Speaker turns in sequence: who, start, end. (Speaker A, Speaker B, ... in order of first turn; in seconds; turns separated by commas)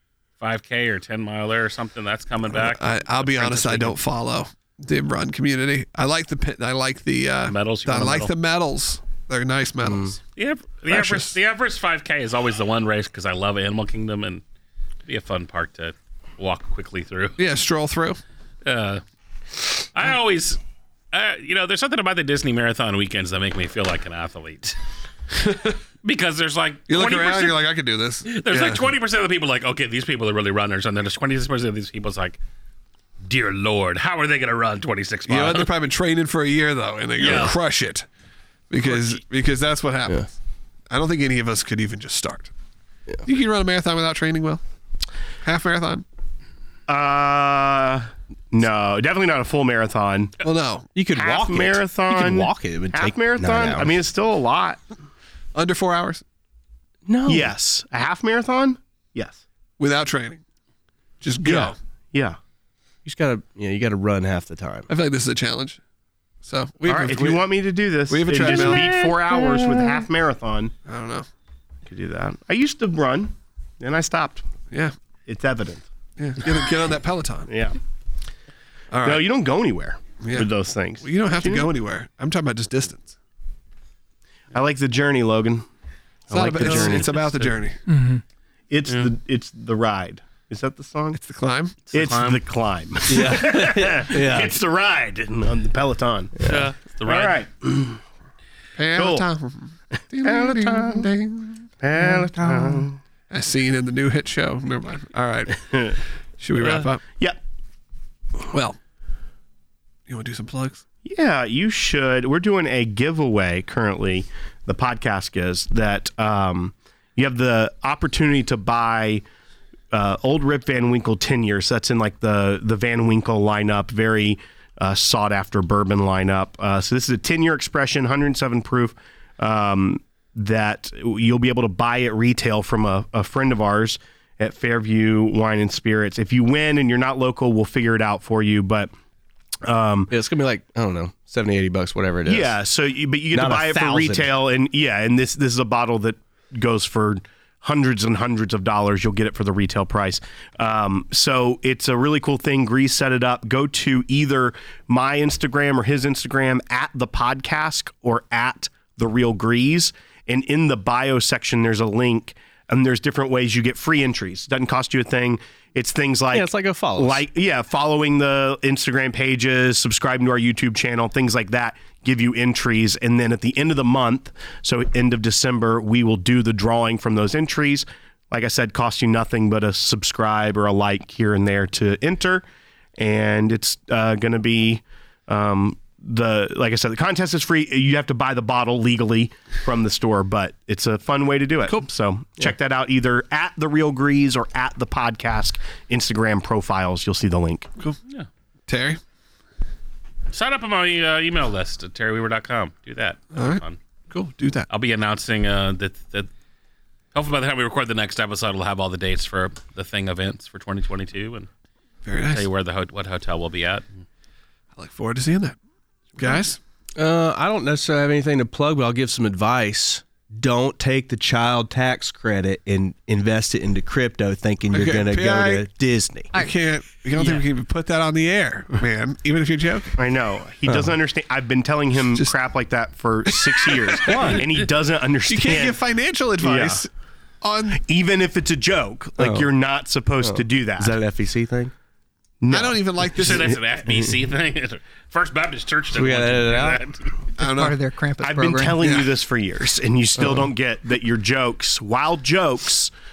Speaker A: 0.4-4.0, Speaker B: 2.5-10.2, Speaker A: 7.5-8.3, Speaker C: 9.8-10.2, Speaker A: 10.4-14.4, Speaker B: 10.9-11.3, Speaker A: 15.1-17.4, Speaker B: 17.4-18.2, Speaker A: 18.6-19.0, Speaker A: 19.8-20.6, Speaker A: 21.1-24.8, Speaker B: 25.4-25.8, Speaker A: 26.0-27.7, Speaker B: 26.9-28.8, Speaker A: 28.3-32.4, Speaker A: 33.2-35.7, Speaker B: 35.3-38.1, Speaker A: 37.2-37.5, Speaker B: 38.7-40.3, Speaker A: 38.8-39.2, Speaker B: 40.9-42.5, Speaker B: 43.2-44.6, Speaker B: 45.4-46.0, Speaker D: 46.9-50.4, Speaker B: 50.4-50.9, Speaker C: 51.0-54.0, Speaker D: 51.1-54.8, Speaker B: 55.5-56.2, Speaker C: 57.1-57.5, Speaker D: 57.3-59.4, Speaker B: 59.8-60.4, Speaker B: 61.2-61.8, Speaker D: 61.4-62.4, Speaker C: 63.0-64.9, Speaker B: 64.9-65.8, Speaker B: 66.4-67.5, Speaker D: 66.9-70.7, Speaker B: 68.1-68.9, Speaker B: 70.9-71.3, Speaker D: 71.9-74.5, Speaker D: 75.3-75.8, Speaker B: 76.2-77.5, Speaker D: 77.5-77.8, Speaker B: 78.9-79.2, Speaker D: 79.0-81.7, Speaker B: 80.2-83.2, Speaker D: 84.5-85.7, Speaker D: 86.3-87.1, Speaker B: 86.3-87.8, Speaker A: 86.5-87.5, Speaker E: 87.9-88.2, Speaker D: 88.7-91.2, Speaker A: 88.9-89.1, Speaker B: 91.1-91.8, Speaker D: 91.9-96.5, Speaker A: 91.9-92.4, Speaker C: 93.1-94.5, Speaker A: 96.4-97.4, Speaker D: 97.0-98.0, Speaker B: 98.8-101.7, Speaker D: 99.0-99.3, Speaker D: 100.2-101.1, Speaker D: 101.8-103.0, Speaker E: 102.1-102.8, Speaker B: 103.3-105.7, Speaker D: 105.6-106.0, Speaker B: 106.4-107.0, Speaker D: 107.1-107.4, Speaker B: 108.5-108.8, Speaker B: 110.1-110.8, Speaker D: 111.0-119.2, Speaker D: 119.9-138.9, Speaker D: 139.6-140.1, Speaker C: 140.1-142.6, Speaker D: 142.3-182.4, Speaker C: 143.3-144.3, Speaker C: 166.3-167.2, Speaker D: 183.0-197.7, Speaker B: 198.7-199.0, Speaker A: 200.3-203.8, Speaker B: 203.3-204.7, Speaker A: 204.7-206.3, Speaker A: 207.1-211.5, Speaker B: 212.1-212.5, Speaker A: 212.2-213.8, Speaker B: 214.8-215.6, Speaker B: 216.2-216.6, Speaker C: 217.0-226.3, Speaker B: 224.7-225.7, Speaker B: 226.3-229.9, Speaker E: 227.2-227.5, Speaker D: 230.0-235.8, Speaker C: 230.7-230.9, Speaker B: 233.5-234.3, Speaker C: 234.1-234.5, Speaker B: 235.3-236.9, Speaker D: 236.4-236.8, Speaker B: 237.4-237.8, Speaker D: 237.7-240.9, Speaker C: 239.2-239.5, Speaker C: 240.2-241.7, Speaker D: 242.4-243.6, Speaker B: 242.5-243.6, Speaker A: 243.2-247.2, Speaker C: 245.9-246.8, Speaker B: 247.4-247.8, Speaker E: 247.4-248.9, Speaker D: 248.2-252.9, Speaker B: 248.8-249.1